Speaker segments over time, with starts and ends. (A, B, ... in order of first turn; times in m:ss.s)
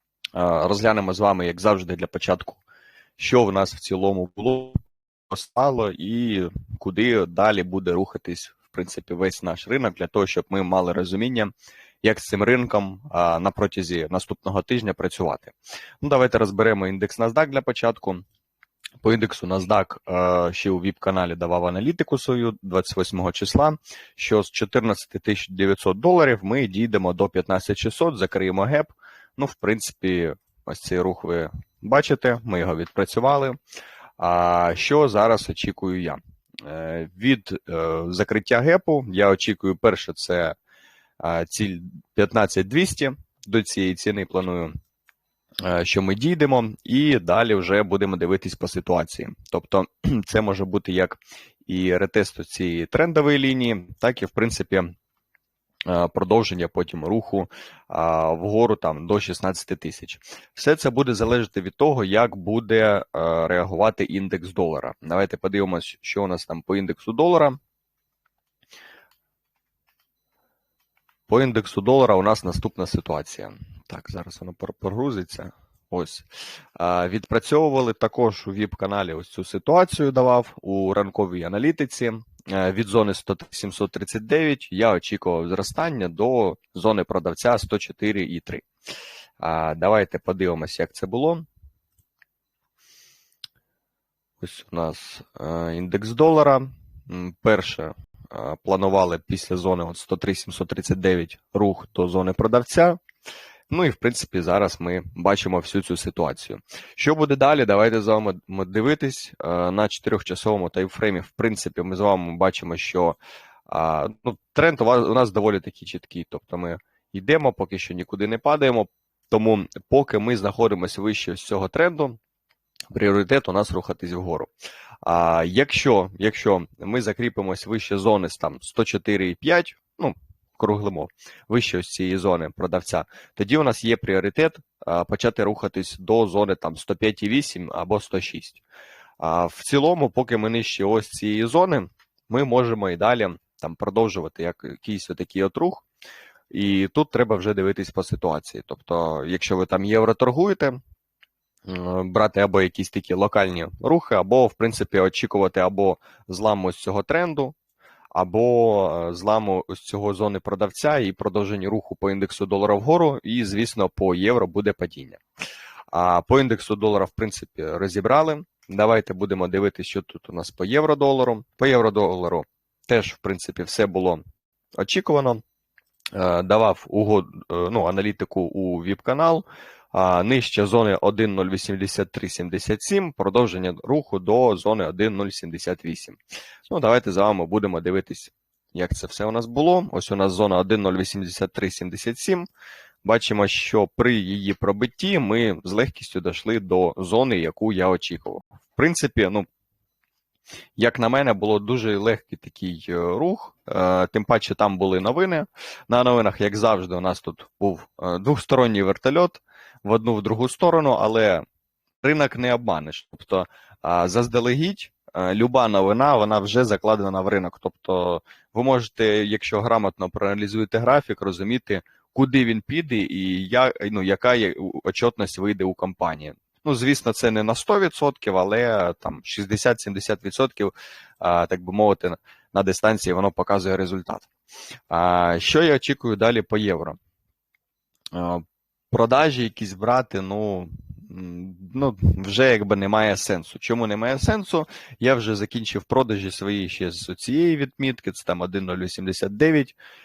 0:00.3-0:02.6 A
0:03.2-0:11.5 A
0:12.0-0:18.2 A
0:19.0-0:33.6 A
0:34.2-0:40.6 A
0:41.2-0:44.7 A
0:45.6-0:54.9 A
0:55.8-1:07.6 A
1:11.3-1:28.7 A
1:29.4-1:31.4 A
1:34.4-1:43.0 A
1:43.7-1:53.2 A
1:53.7-2:02.2 A
2:02.9-2:04.5 A
2:05.0-2:18.6 A
2:19.2-2:25.8 A
2:26.5-2:30.8 A
2:31.6-2:37.5 A
2:38.1-2:45.2 A
2:45.9-2:54.2 A
2:54.8-2:55.4 A
2:56.1-3:12.5 A
3:13.0-3:19.5 A
3:20.8-3:31.4 A
3:32.0-3:54.3 A
3:54.9-3:57.0 A
3:58.1-4:09.8 A